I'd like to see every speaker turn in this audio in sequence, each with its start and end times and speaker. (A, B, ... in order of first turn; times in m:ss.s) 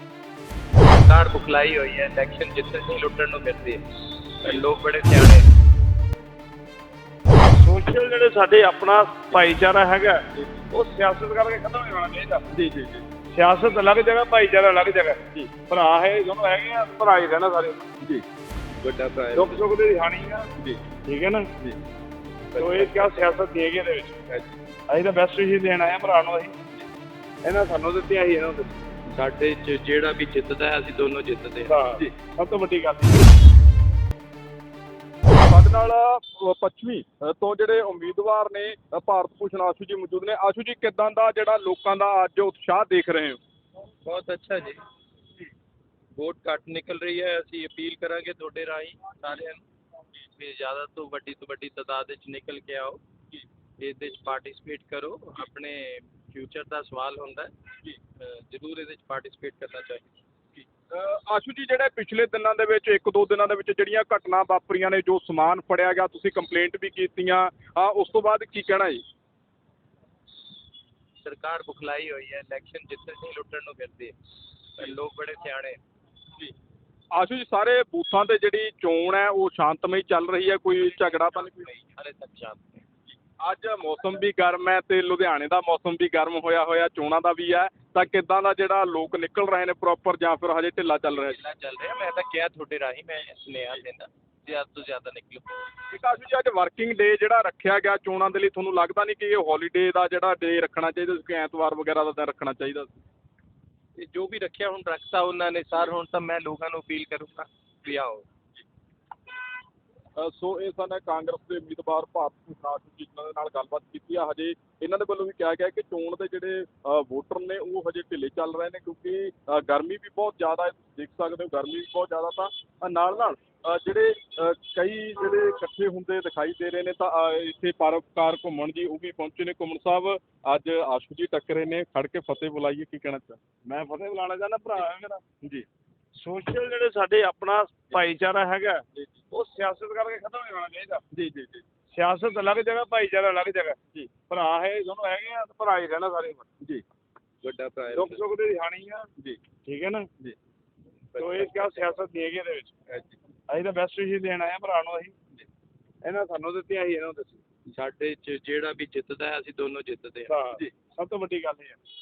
0:01.1-0:05.5 A
0:07.5-0:12.5 B
0:12.5-0:13.0 C
0:13.3-0:17.9 B
0:18.8-0:19.6 A
0:19.4-0:20.5 B
0:21.0-0:21.5 B
0:22.5-0:23.4 A
0:22.6-0:24.2 B
0:24.9-0:26.5 B
0:27.4-0:28.8 B
0:29.1-0:31.8 A
0:31.7-0:33.3 B
0:35.4-0:43.4 C
0:44.0-0:44.8 A
0:46.2-0:49.6 A
0:50.3-0:53.0 A
0:53.8-0:57.5 A
0:58.2-1:00.2 A
1:00.9-1:09.0 C
1:11.2-1:14.1 A
1:14.7-1:15.8 A
1:17.1-1:21.7 C
1:20.8-1:22.8 A
1:23.4-1:31.4 C
1:31.1-1:35.6 A
1:35.9-1:42.9 C
1:44.0-1:48.2 A
1:50.2-2:13.4 C
2:13.6-2:15.2 B
2:16.2-2:21.0 B
2:21.1-2:21.6 C
2:21.9-2:26.5 B
2:27.4-2:28.2 A
2:27.9-2:29.1 B
2:29.6-2:30.1 B
2:31.2-2:31.9 A
2:31.2-2:32.7 B
2:33.5-2:35.2 B
2:36.0-2:37.4 B
2:37.7-2:40.3 A
2:40.3-2:41.8 B